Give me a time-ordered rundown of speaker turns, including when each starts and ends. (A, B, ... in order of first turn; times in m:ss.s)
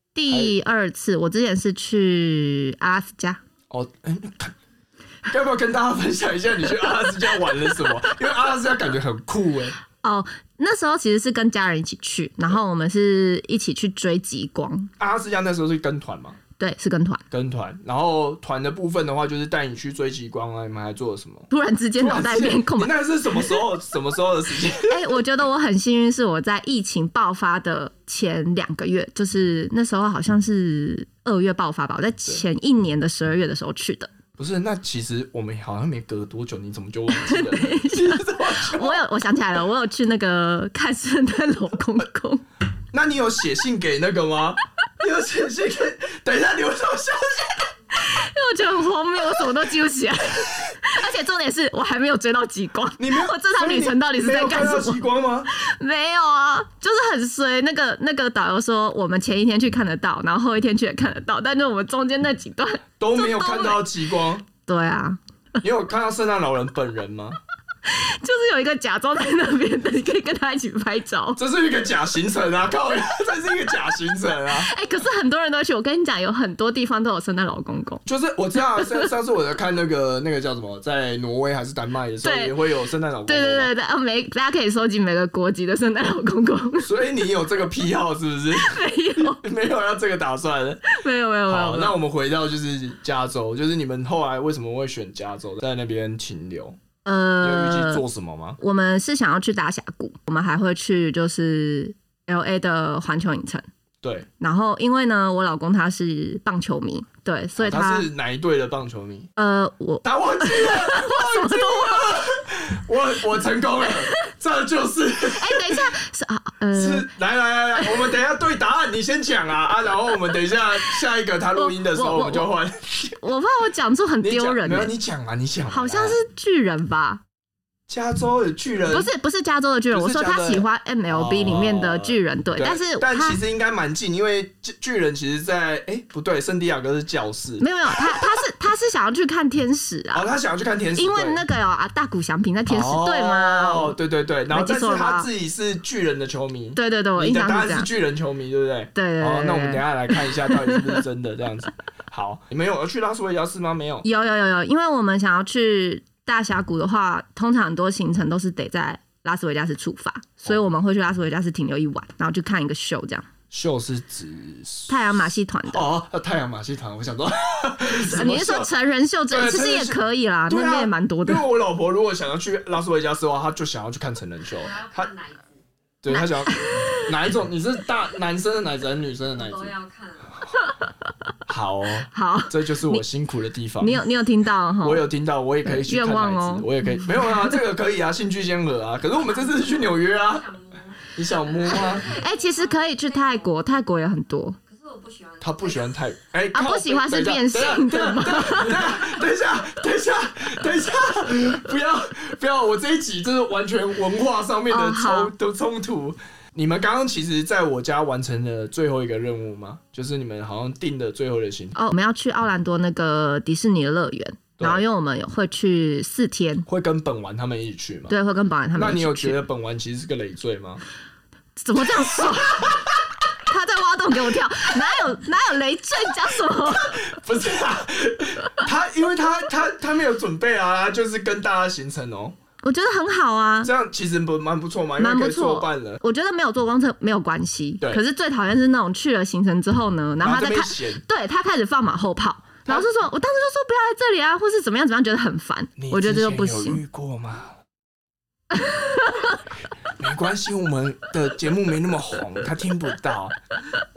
0:00.1-0:03.4 A
0:03.7-0:04.5 B
0:05.2-0:09.8 B
0:10.0-0:14.9 A
0:15.0-0:16.4 B
0:16.6-0:17.2 A
0:17.3-0:25.0 B
0:21.5-0:23.6 A
0:24.8-0:34.1 A
0:34.4-0:39.0 B
0:37.1-0:42.4 A
0:42.9-0:47.7 B
0:47.9-0:55.0 A
0:53.0-0:55.5 B
0:55.6-1:03.9 A
1:03.0-1:04.4 B
1:04.7-1:05.2 A
1:05.6-1:07.4 B
1:07.9-1:11.4 A
1:11.4-1:14.7 B
1:14.4-1:18.0 A
1:18.0-1:23.7 B
1:18.6-1:19.0 A
1:22.2-1:22.5 A
1:23.2-1:26.9 A
1:26.8-1:30.9 B
1:28.5-1:29.4 A
1:30.9-1:32.0 A
1:31.5-1:36.8 B
1:37.0-1:38.0 A
1:37.4-1:38.6 B
1:38.6-1:43.6 A
1:44.0-1:44.3 B
1:44.4-1:48.1 A
1:47.6-1:49.3 B
1:49.4-1:52.2 A
1:50.0-1:55.8 B
1:55.3-1:57.1 A
1:56.7-2:03.1 B
1:57.8-1:58.1 A
2:01.5-2:02.5 A
2:03.2-2:04.9 A
2:04.2-2:06.2 B
2:05.7-2:07.2 A
2:07.9-2:09.1 B
2:08.9-2:13.4 A
2:09.9-2:17.7 B
2:17.6-2:20.3 A
2:20.1-2:21.4 B
2:20.9-2:24.0 A
2:22.7-2:34.0 B
2:24.5-2:25.3 A
2:26.7-2:27.9 A
2:28.9-2:30.9 A
2:34.0-2:43.3 A
2:43.5-2:45.2 B
2:44.9-2:45.9 A
2:45.7-2:48.7 B
2:47.9-2:51.4 A
2:49.3-2:55.1 B
2:54.6-2:55.6 C
2:56.0-2:59.7 B
2:56.1-2:57.0 A
2:59.3-3:00.3 C
3:01.5-3:04.0 B
3:02.1-3:03.0 A
3:03.8-3:05.1 A
3:04.8-3:10.5 B
3:05.6-3:07.6 A
3:09.4-3:11.1 C
3:11.1-3:12.1 B
3:11.7-3:13.5 C
3:12.0-3:14.6 A
3:14.6-3:16.0 C
3:15.4-3:31.8 B
3:16.5-3:19.0 A
3:24.7-3:25.3 A
3:31.7-3:36.6 A
3:36.7-3:38.1 B
3:38.1-3:39.4 A
3:38.7-3:40.8 B
3:41.6-3:42.7 A
3:43.5-3:47.0 A
3:47.1-3:52.3 B
3:52.6-3:53.7 A
3:53.6-3:56.0 B
3:55.0-4:06.8 A
4:00.2-4:01.0 B
4:05.8-4:07.5 B
4:08.6-4:08.9 A
4:10.0-4:13.4 B